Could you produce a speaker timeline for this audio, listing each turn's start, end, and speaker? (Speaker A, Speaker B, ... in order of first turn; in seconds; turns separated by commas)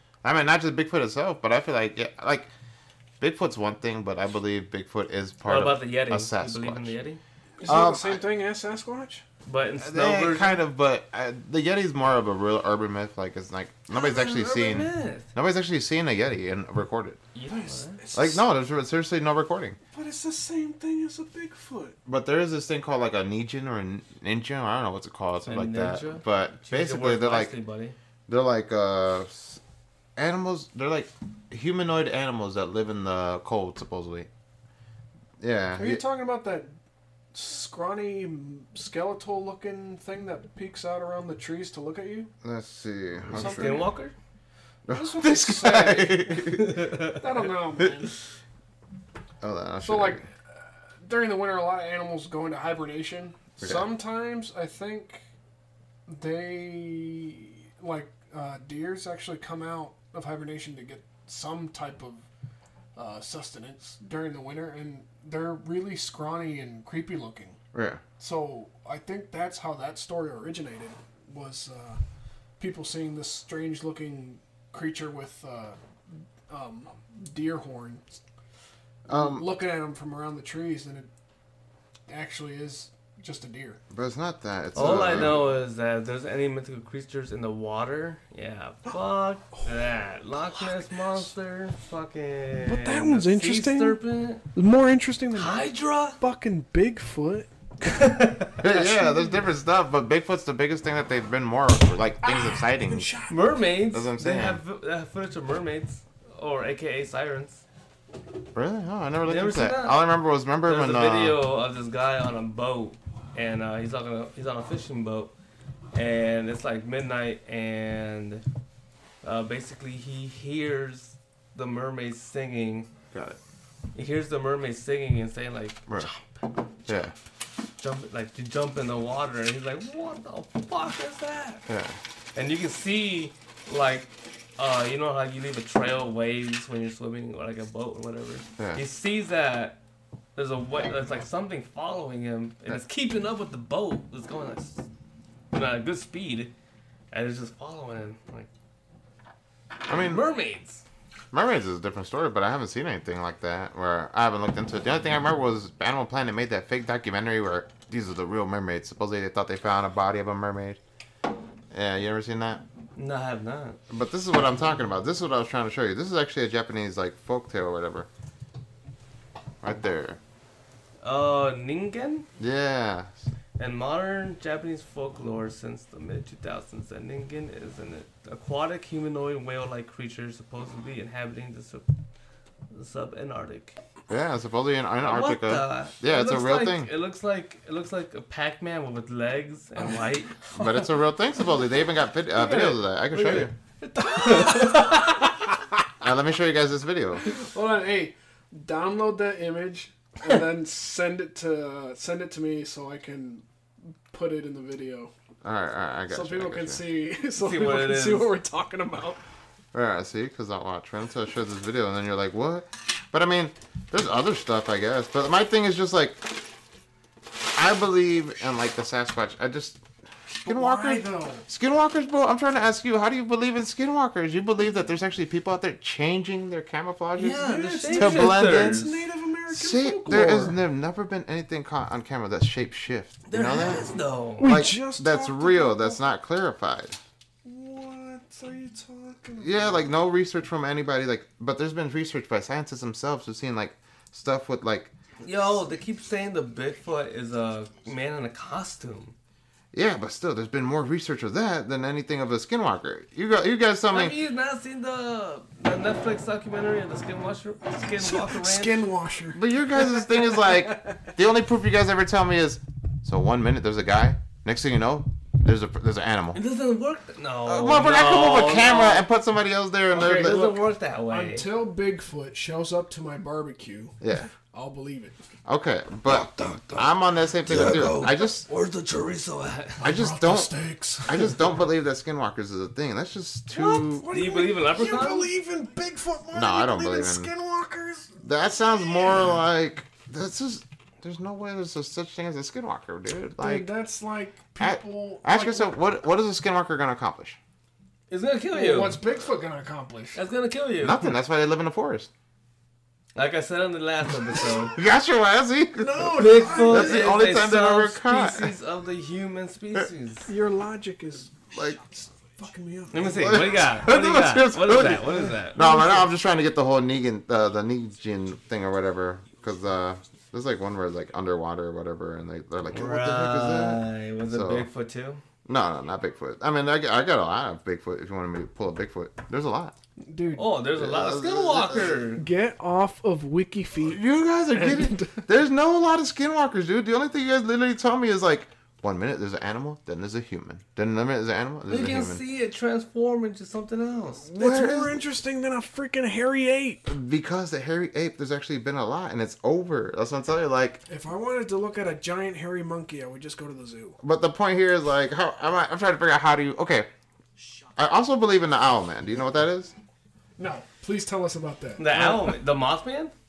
Speaker A: 0.2-2.5, Speaker A: 3.2-7.0, Speaker B: 5.5-7.2, Speaker C: 7.6-9.2, Speaker A: 7.6-8.2, Speaker B: 9.5-10.6, Speaker A: 9.8-17.2, Speaker B: 13.9-15.3, Speaker B: 17.4-18.0, Speaker C: 17.5-18.4, Speaker A: 18.1-19.8, Speaker C: 19.9-22.0, Speaker A: 22.1-27.6, Speaker B: 25.4-28.0, Speaker A: 28.3-29.6, Speaker A: 30.2-34.3, Speaker A: 35.4-36.0, Speaker C: 35.8-36.8, Speaker C: 37.3-42.3, Speaker A: 42.4-43.9, Speaker C: 43.3-43.9, Speaker B: 43.3-44.1, Speaker A: 44.9-46.9, Speaker C: 44.9-48.1, Speaker B: 46.3-47.2, Speaker A: 49.4-50.2, Speaker C: 49.8-55.2, Speaker A: 53.6-53.9, Speaker C: 56.1-62.2, Speaker C: 63.0-67.6, Speaker A: 67.7-68.0, Speaker C: 68.2-72.0, Speaker C: 72.6-75.8, Speaker C: 76.5-78.0, Speaker A: 79.1-79.5, Speaker C: 79.1-81.1, Speaker C: 82.1-83.8, Speaker A: 83.9-85.5, Speaker B: 84.7-94.5, Speaker C: 92.6-94.0, Speaker C: 94.5-99.5, Speaker B: 95.3-96.2, Speaker B: 97.8-98.6, Speaker A: 98.6-103.1, Speaker C: 102.2-103.6, Speaker B: 103.3-107.6, Speaker A: 103.9-104.6, Speaker A: 108.5-111.4, Speaker B: 109.2-110.1, Speaker B: 110.6-115.3, Speaker B: 115.9-118.4, Speaker B: 119.2-122.9, Speaker A: 123.1-123.4, Speaker B: 123.9-126.5, Speaker A: 126.9-127.1, Speaker B: 127.8-131.7, Speaker A: 131.7-132.0, Speaker B: 132.3-139.8, Speaker B: 140.4-144.9, Speaker B: 145.5-146.5, Speaker B: 147.1-148.5, Speaker A: 149.9-150.2, Speaker B: 149.9-150.8, Speaker A: 151.3-160.8, Speaker A: 161.7-162.6, Speaker B: 163.0-163.8, Speaker A: 163.9-168.1, Speaker A: 169.6-170.2, Speaker B: 171.0-172.3, Speaker A: 172.4-173.1, Speaker B: 173.6-181.9, Speaker B: 182.7-183.8, Speaker A: 184.1-186.9, Speaker B: 185.0-190.8, Speaker A: 190.5-193.5, Speaker C: 192.3-195.3, Speaker B: 194.1-195.3, Speaker A: 196.0-197.3, Speaker C: 197.2-203.4, Speaker C: 204.1-205.1, Speaker A: 205.4-206.8, Speaker C: 206.1-209.2, Speaker B: 207.3-208.3, Speaker A: 209.7-216.4, Speaker A: 217.6-219.8, Speaker C: 220.4-221.5, Speaker A: 220.4-228.8, Speaker B: 227.2-229.0, Speaker C: 227.4-230.6, Speaker A: 229.5-233.9, Speaker B: 233.3-234.5, Speaker C: 234.4-236.1, Speaker A: 234.4-237.0, Speaker C: 237.4-239.9, Speaker A: 239.4-244.9, Speaker B: 245.2-249.2, Speaker A: 249.7-254.2, Speaker B: 253.9-258.9, Speaker C: 258.0-259.4, Speaker A: 259.3-266.4, Speaker B: 266.3-269.1, Speaker A: 267.4-270.6, Speaker B: 269.9-271.5, Speaker C: 269.9-275.2, Speaker A: 274.0-274.3, Speaker A: 275.5-278.4, Speaker B: 276.1-279.9, Speaker C: 279.8-281.5, Speaker A: 279.8-280.5, Speaker A: 281.1-284.1, Speaker C: 283.5-289.3, Speaker B: 284.1-285.3, Speaker A: 286.3-287.3, Speaker A: 288.2-293.7, Speaker C: 293.4-295.8, Speaker A: 294.6-297.4, Speaker B: 298.1-299.0, Speaker C: 298.5-300.2, Speaker B: 300.1-301.1, Speaker A: 300.8-302.1, Speaker B: 303.1-304.8, Speaker A: 304.7-308.5, Speaker C: 305.8-307.2, Speaker B: 306.1-310.3, Speaker C: 310.3-313.7, Speaker A: 311.5-311.8, Speaker B: 312.9-315.6, Speaker A: 313.1-324.7, Speaker C: 314.9-316.1, Speaker B: 322.7-325.2, Speaker A: 325.4-329.8, Speaker C: 330.0-330.6, Speaker B: 330.4-332.2, Speaker A: 330.8-332.0, Speaker C: 332.2-335.2, Speaker A: 333.8-342.2, Speaker B: 341.7-344.3, Speaker C: 344.3-346.9, Speaker A: 344.3-345.0, Speaker A: 346.9-350.8, Speaker C: 350.9-354.0, Speaker A: 354.0-356.9, Speaker A: 357.8-359.7, Speaker C: 360.4-362.4, Speaker B: 361.8-363.1